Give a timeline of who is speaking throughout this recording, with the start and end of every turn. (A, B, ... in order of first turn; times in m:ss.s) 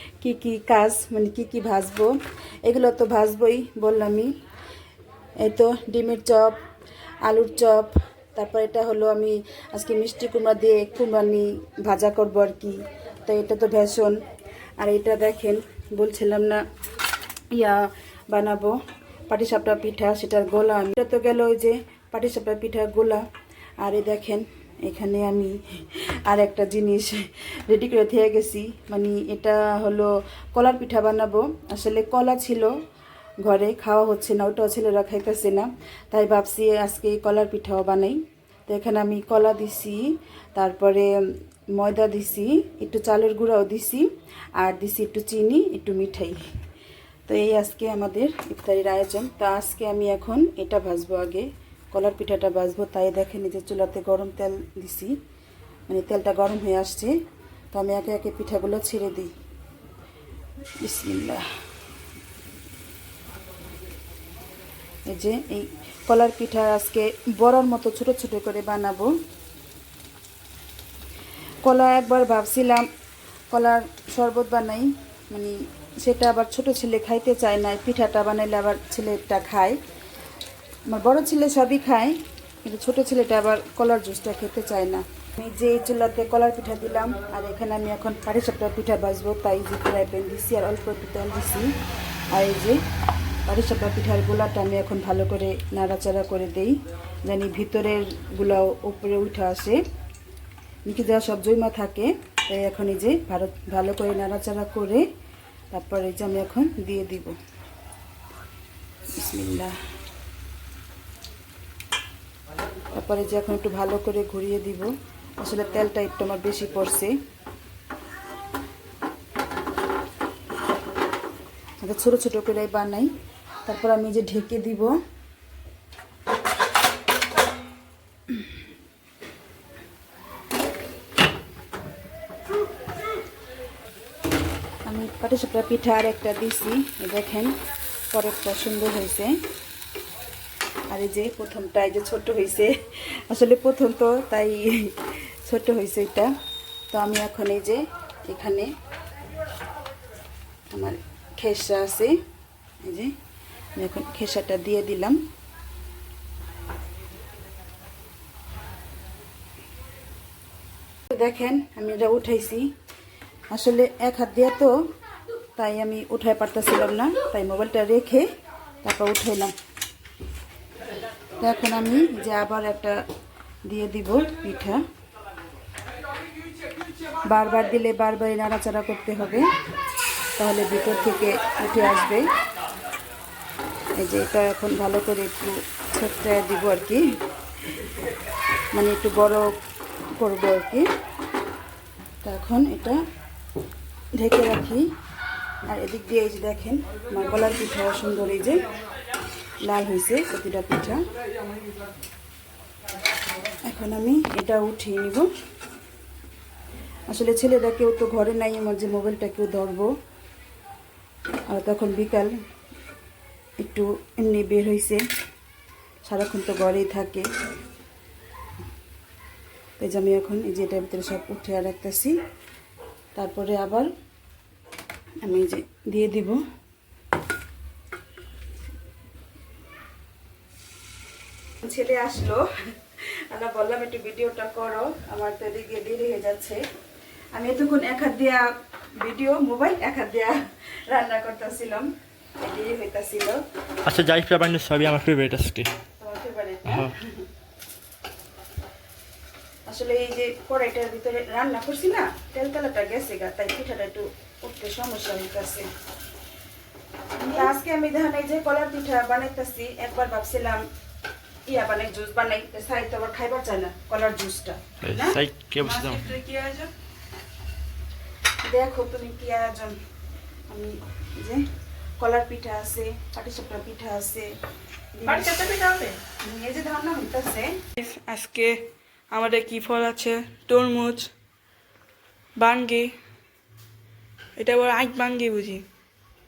0:00.2-0:04.3 A
0:05.4-0:06.6 A
0:07.2-0:14.2 A
0:14.8-0:16.6 A
0:17.5-0:18.8 A
0:19.3-0:23.2 A
0:23.8-0:32.7 A
0:33.4-0:41.1 A
0:41.8-0:46.4 A
0:47.3-0:55.2 A
0:55.9-0:57.2 A
0:57.7-0:59.3 A
1:00.8-1:01.5 A
1:05.1-1:09.1 A
1:11.6-1:12.9 A
1:13.5-1:19.8 A
1:20.9-1:31.7 A
1:32.3-1:32.8 A
1:33.5-1:39.8 A
1:40.9-1:45.0 A
1:45.7-1:47.4 A
1:49.1-1:49.8 A
1:52.9-1:57.2 A
2:01.8-2:03.1 A
2:03.7-2:04.9 A
2:14.9-2:17.5 A
2:18.1-2:19.4 A
2:20.9-2:26.3 A
2:26.9-2:28.7 A
2:30.7-2:32.2 A
2:32.8-2:33.1 A
2:33.8-2:35.2 A
2:41.1-2:42.7 A
2:43.5-2:44.8 A
2:45.6-2:48.3 A
2:48.8-2:49.5 A
2:51.4-2:53.0 A
2:53.7-2:54.8 A
2:57.2-2:59.5 A
3:00.4-3:02.3 A
3:04.0-3:07.1 A
3:08.7-3:09.5 A
3:10.2-3:10.9 A
3:12.2-3:13.0 A
3:14.2-3:14.9 A
3:15.7-3:18.6 A
3:19.6-3:21.0 A
3:23.6-3:25.3 A
3:27.1-3:29.9 A
3:31.5-3:32.3 A
3:33.6-3:35.0 A
3:36.0-3:37.3 A
3:39.8-3:42.2 A
3:43.2-3:43.9 A
3:45.2-3:46.4 A
3:51.6-3:56.6 A
3:57.4-4:00.4 A
4:00.9-4:01.9 A
4:02.4-4:03.4 A
4:03.9-4:05.7 B
4:06.0-4:07.1 A
4:06.7-4:06.9 B
4:09.7-4:15.7 A
4:17.3-4:20.6 A
4:21.5-4:26.6 A
4:24.8-4:26.2 B
4:25.8-4:26.7 C
4:28.5-4:29.8 A
4:30.5-4:31.4 A
4:32.0-4:34.3 A
4:34.9-4:35.5 A
4:35.1-4:36.0 C
4:36.2-4:37.6 A
4:37.8-4:38.6 C
4:39.1-4:41.1 C
4:42.4-4:42.9 C
4:44.4-4:45.6 C